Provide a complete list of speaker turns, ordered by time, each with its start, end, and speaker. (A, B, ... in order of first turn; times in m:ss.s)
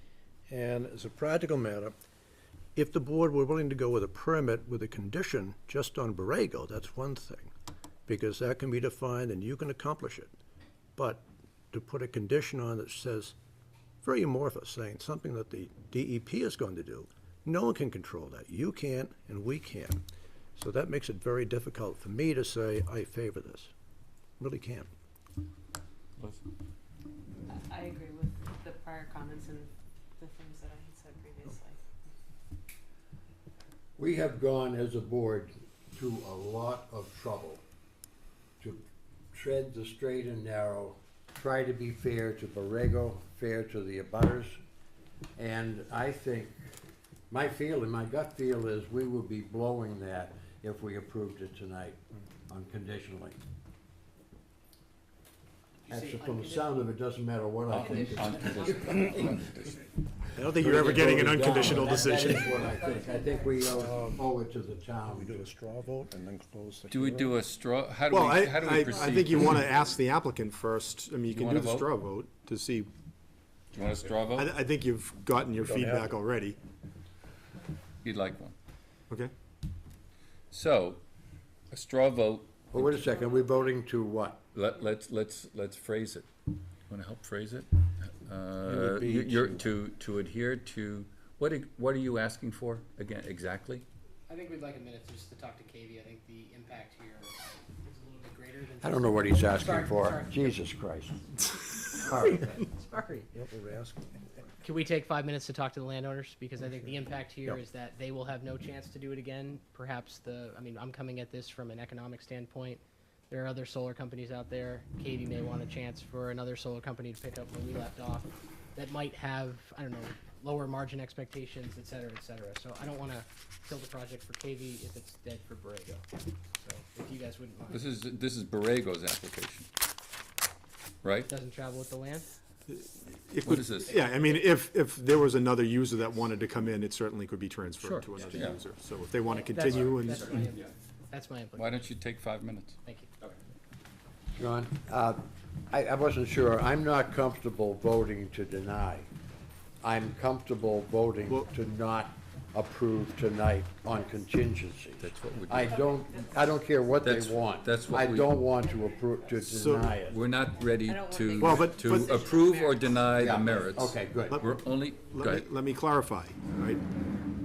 0:00.5-0:01.9 A
0:02.8-0:07.5 A
0:08.1-0:10.3 A
0:11.0-0:13.3 A
0:14.0-0:20.0 A
0:20.5-0:23.7 A
0:24.4-0:24.9 A
0:26.2-0:26.4 B
0:27.5-0:31.8 C
0:34.0-0:37.6 D
0:39.3-0:44.6 D
0:45.4-0:46.5 D
0:47.3-0:53.4 D
0:55.8-0:56.7 E
0:55.9-0:58.8 D
0:57.7-0:59.8 B
0:58.0-0:58.6 E
1:00.4-1:02.4 A
1:00.6-1:05.4 D
1:00.6-1:02.6 F
1:02.6-1:03.5 C
1:03.7-1:04.2 A
1:05.0-1:07.4 A
1:06.9-1:09.6 B
1:08.1-1:12.9 F
1:11.3-1:11.9 B
1:13.7-1:14.5 B
1:14.3-1:16.6 F
1:15.6-1:16.2 A
1:18.0-1:18.5 B
1:20.5-1:21.0 B
1:21.7-1:22.9 B
1:22.7-1:24.4 D
1:24.5-1:26.2 B
1:26.9-1:33.8 B
1:28.6-1:29.7 A
1:34.3-1:40.6 E
1:38.8-1:41.2 D
1:41.9-1:43.3 E
1:43.3-1:44.5 A
1:44.6-2:06.1 E
2:06.6-2:07.8 E
2:07.7-2:09.7 B
2:11.0-2:11.3 B
2:11.3-2:12.2 E
2:12.7-2:20.4 F
2:13.4-2:14.0 B
2:14.0-2:14.3 E
2:17.8-2:18.6 B
2:19.3-2:21.8 E
2:20.2-2:20.7 B
2:21.6-2:23.4 B
2:24.3-2:29.1 D
2:29.8-2:40.3 D
2:31.4-2:32.3 C
2:33.9-2:34.2 C
2:35.0-2:35.8 B
2:35.7-2:36.7 C
2:37.0-2:38.4 B
2:37.3-2:39.6 C
2:39.4-2:40.0 F
2:40.0-2:45.5 B
2:40.4-2:43.7 C
2:41.4-2:42.2 F
2:43.1-2:44.4 D
2:44.3-2:46.8 F